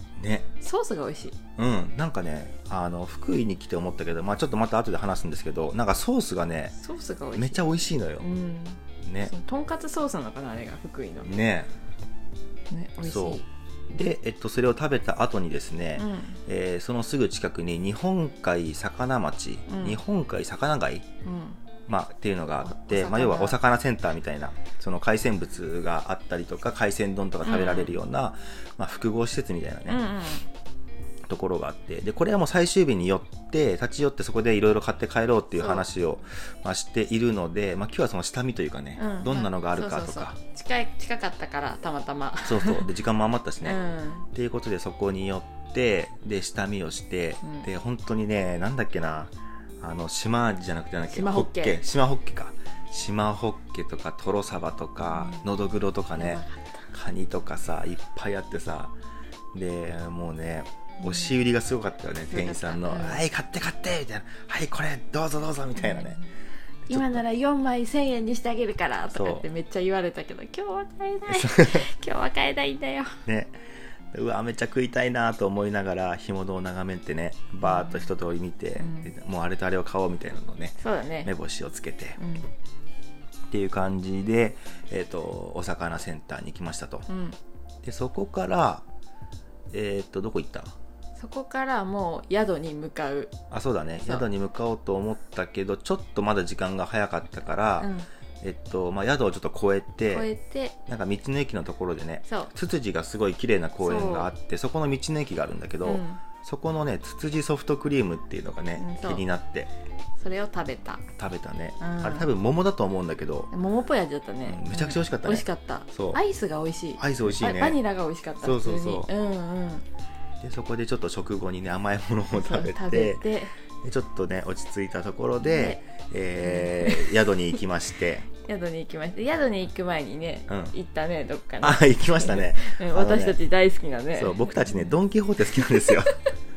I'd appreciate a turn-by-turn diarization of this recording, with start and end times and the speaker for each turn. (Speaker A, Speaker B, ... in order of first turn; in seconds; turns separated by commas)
Speaker A: 0.2-0.5, Speaker B: 0.6-1.4, Speaker A: 1.6-6.7, Speaker B: 6.7-7.7, Speaker A: 7.3-8.2, Speaker B: 8.2-11.4, Speaker A: 9.0-9.3, Speaker A: 11.2-11.7, Speaker B: 12.7-13.4, Speaker A: 13.0-21.0, Speaker B: 15.9-16.4, Speaker B: 19.7-20.0, Speaker B: 21.2-21.6, Speaker A: 21.9-30.1, Speaker B: 22.6-23.6, Speaker B: 27.4-27.9, Speaker B: 29.9-30.4, Speaker A: 31.3-40.4, Speaker B: 35.6-35.9, Speaker B: 39.0-42.9, Speaker A: 42.4-43.8, Speaker B: 43.6-44.3, Speaker A: 44.3-58.9, Speaker B: 47.4-47.7, Speaker B: 51.1-51.8, Speaker B: 55.1-55.4, Speaker B: 56.1-56.7, Speaker A: 59.5-66.2, Speaker B: 62.3-63.2, Speaker B: 65.8-66.2, Speaker A: 66.9-67.2, Speaker B: 66.9-73.2, Speaker A: 69.1-69.4, Speaker A: 71.3-71.9, Speaker A: 73.2-73.5, Speaker A: 74.1-82.2, Speaker B: 77.6-78.0, Speaker B: 78.8-79.1, Speaker B: 80.8-81.3, Speaker B: 82.2-82.5, Speaker A: 83.5-87.1, Speaker B: 87.1-87.4, Speaker A: 87.8-88.8, Speaker A: 89.7-90.7, Speaker B: 91.2-93.3, Speaker A: 93.5-97.9, Speaker B: 94.0-94.3, Speaker B: 97.8-98.1, Speaker A: 98.4-100.3, Speaker B: 100.1-100.7, Speaker A: 100.8-109.7, Speaker B: 102.2-102.5, Speaker B: 103.8-104.3, Speaker B: 105.8-106.2, Speaker B: 108.8-109.2, Speaker B: 110.2-111.0, Speaker A: 111.2-113.5, Speaker B: 111.8-112.3, Speaker B: 113.5-119.8, Speaker A: 114.5-116.2, Speaker A: 117.0-117.8, Speaker A: 118.4-119.1, Speaker A: 120.4-123.2, Speaker B: 122.3-123.5, Speaker A: 123.8-128.3, Speaker B: 125.4-125.8, Speaker B: 126.4-127.2, Speaker B: 128.4-134.9, Speaker A: 130.5-130.7, Speaker A: 131.6-133.4, Speaker A: 134.1-136.2